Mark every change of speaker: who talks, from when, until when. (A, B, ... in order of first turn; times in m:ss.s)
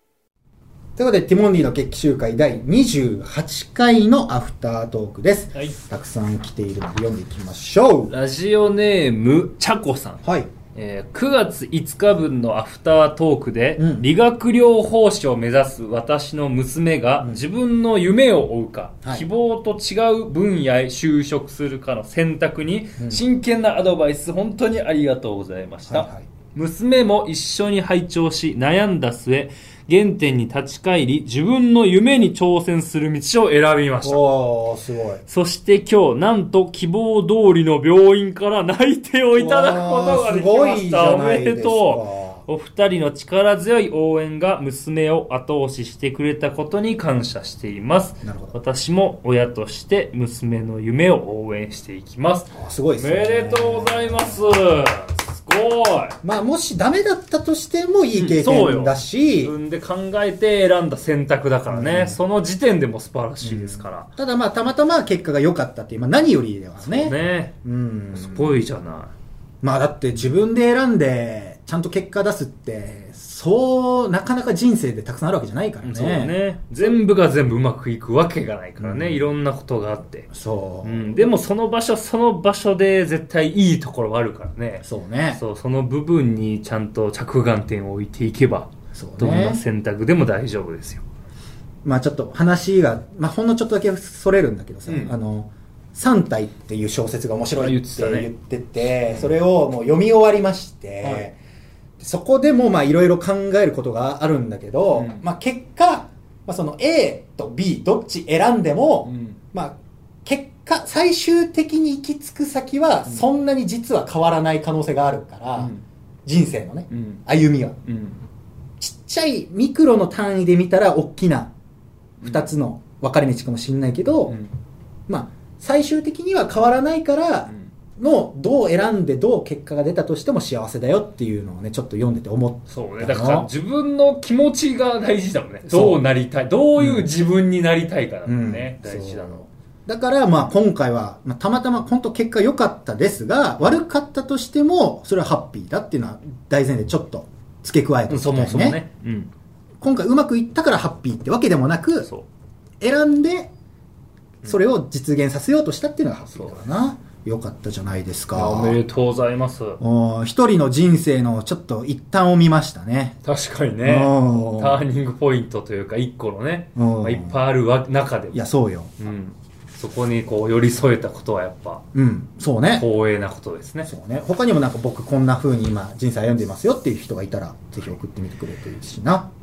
0:01.0-0:08.1 A
0:08.1-0:10.2 B
0:10.2-0:10.5 A
0:10.7-0:34.2 B
0:13.8-0:14.1 A
0:25.9-0:26.3 A
0:34.0-0:35.2 A
0:35.3-0:56.2 B
0:39.4-0:42.4 A
0:48.2-0:48.6 A
0:52.5-0:54.4 A
0:56.2-0:59.6 A
0:58.1-1:04.1 B
1:01.7-1:02.2 A
1:03.4-1:08.6 A
1:06.8-1:07.6 B
1:08.1-1:09.1 B
1:09.6-1:16.4 A
1:15.8-1:20.3 B
1:18.8-1:19.3 A
1:20.3-1:21.3 A
1:20.8-1:31.0 B
1:24.8-1:25.4 A
1:29.0-1:29.6 A
1:31.8-1:41.4 A
1:34.9-1:35.2 B
1:37.6-1:38.3 B
1:41.0-1:41.3 B
1:42.0-1:55.7 A
1:44.9-1:45.2 B
1:49.0-1:49.4 B
1:55.6-1:55.8 B
1:56.2-1:57.8 A
1:56.9-1:57.2 B
1:57.8-1:58.2 B
1:58.8-2:01.5 A
2:02.2-2:02.5 B
2:02.2-2:04.4 A
2:04.3-2:04.5 B
2:05.1-2:13.5 A
2:07.5-2:07.7 B
2:12.7-2:19.5 B
2:15.7-2:16.0 A
2:16.8-2:17.1 A
2:18.3-2:28.8 A
2:28.1-2:29.3 B
2:29.8-2:32.1 A
2:32.8-2:33.5 A
2:34.4-2:38.8 A
2:38.3-2:39.8 B
2:39.8-2:43.2 A
2:43.2-2:48.4 B
2:43.8-2:44.9 A
2:46.8-2:47.4 A
2:48.3-2:48.9 A
2:49.0-2:51.8 B
2:51.9-2:52.9 A
2:52.7-2:53.9 B
2:53.8-2:59.3 A